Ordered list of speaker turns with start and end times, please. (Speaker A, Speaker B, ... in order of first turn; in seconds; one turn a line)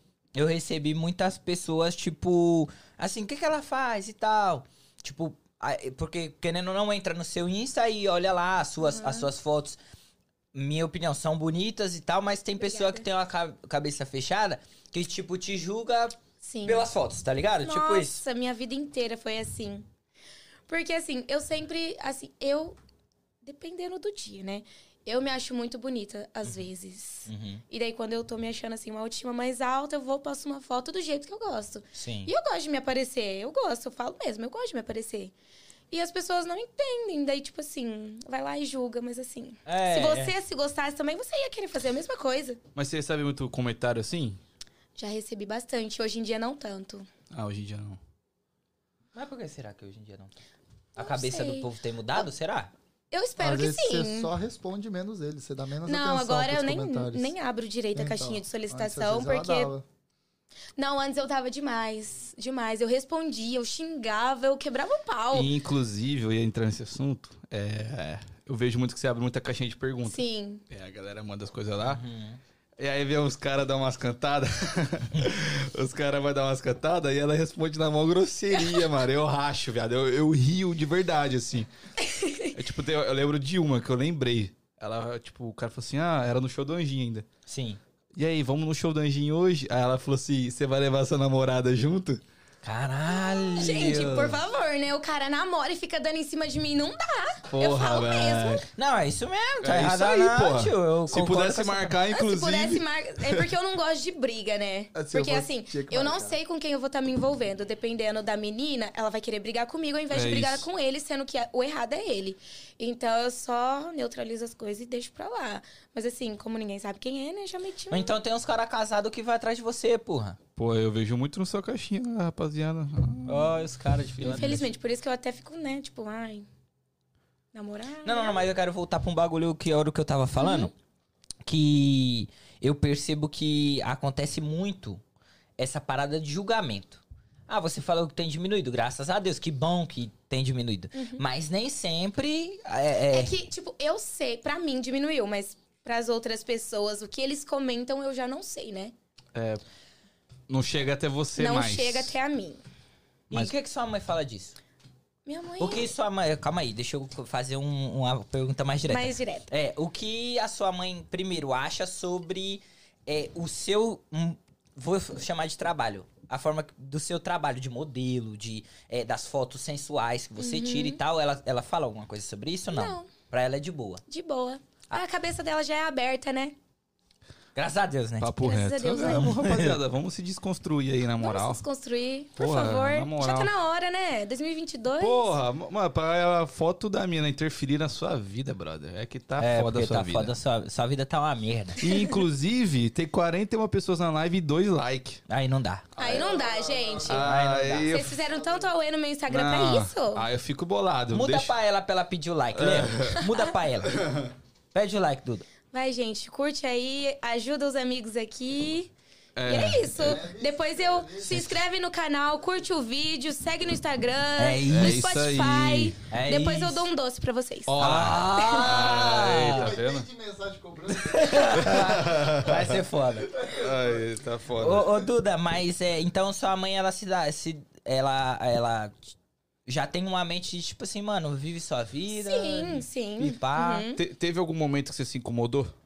Speaker A: 0.3-9.8
Speaker B: 8.8-9.3
Speaker A: 10.5-18.2
Speaker B: 12.6-13.1
Speaker B: 16.4-16.9
Speaker B: 17.6-19.9
Speaker B: 20.7-22.8
Speaker B: 23.4-35.3
Speaker A: 27.3-27.6
Speaker A: 31.9-32.3
Speaker B: 35.9-42.6
Speaker A: 39.7-40.3
Speaker C: 42.8-44.4
Speaker B: 45.0-47.1
Speaker C: 47.3-48.0
Speaker A: 49.1-50.4
Speaker A: 51.0-52.7
Speaker B: 51.0-52.2
Speaker B: 53.1-54.3
Speaker D: 53.4-57.3
Speaker B: 55.9-59.7
Speaker D: 58.0-59.9
Speaker B: 60.8-65.5
Speaker C: 65.3-72.0
Speaker B: 70.0-70.6
Speaker A: 71.8-72.4
Speaker C: 72.8-81.7
Speaker B: 82.0-82.5
Speaker C: 82.5-87.3
Speaker A: 87.5-87.8
Speaker C: 88.2-92.2
Speaker A: 92.6-94.4
Speaker B: 93.1-98.6
Speaker C: 97.5-98.7
Speaker A: 98.8-102.0
Speaker C: 99.6-103.5
Speaker B: 102.1-118.2
Speaker D: 105.0-106.4
Speaker C: 110.1-110.7
Speaker A: 117.9-120.4
Speaker C: 120.6-123.6
Speaker A: 123.3-124.7
Speaker C: 124.2-124.6
Speaker B: 124.2-126.5
Speaker B: 127.5-128.5
Speaker A: 128.1-130.7
Speaker B: 130.4-130.7
Speaker A: 131.4-135.0
Speaker A: 135.6-143.3
Speaker B: 140.9-141.2
Speaker B: 143.1-148.9
Speaker C: 149.3-149.6
Speaker C: 150.5-152.2
Speaker B: 151.4-152.6
Speaker A: 153.3-154.6
Speaker B: 155.3-155.9
Speaker A: 155.6-174.0
Speaker B: 158.9-159.5
Speaker B: 170.4-171.0
Speaker B: 172.7-173.1
Speaker B: 174.1-176.6
Speaker A: 177.6-178.3
Speaker C: 178.2-181.6
Speaker B: 178.4-179.4
Speaker A: 179.0-179.8
Speaker B: 181.2-185.3
Speaker C: 182.4-183.5
Speaker C: 185.0-190.3
Speaker A: 189.4-191.8
Speaker C: 191.8-195.2
Speaker A: 195.3-195.9
Speaker B: 196.0-197.3
Speaker D: 196.0-197.4
Speaker C: 197.1-198.2
Speaker A: 197.1-197.9
Speaker B: 197.9-200.3
Speaker D: 198.1-198.7
Speaker C: 199.3-201.5
Speaker A: 201.1-204.1
Speaker C: 202.5-203.3
Speaker C: 203.9-204.3
Speaker A: 204.7-205.5
Speaker B: 205.7-208.9
Speaker C: 209.4-210.2
Speaker B: 209.5-218.8
Speaker D: 209.9-211.5
Speaker A: 214.4-215.0
Speaker C: 214.7-215.9
Speaker A: 216.1-216.9
Speaker C: 217.7-220.1
Speaker A: 217.8-219.7
Speaker D: 219.3-222.0
Speaker A: 220.9-223.3
Speaker C: 221.5-222.8
Speaker D: 223.3-224.1
Speaker C: 223.5-225.0
Speaker A: 224.6-229.1
Speaker A: 229.7-233.9
Speaker B: 232.1-234.0
Speaker C: 233.9-235.7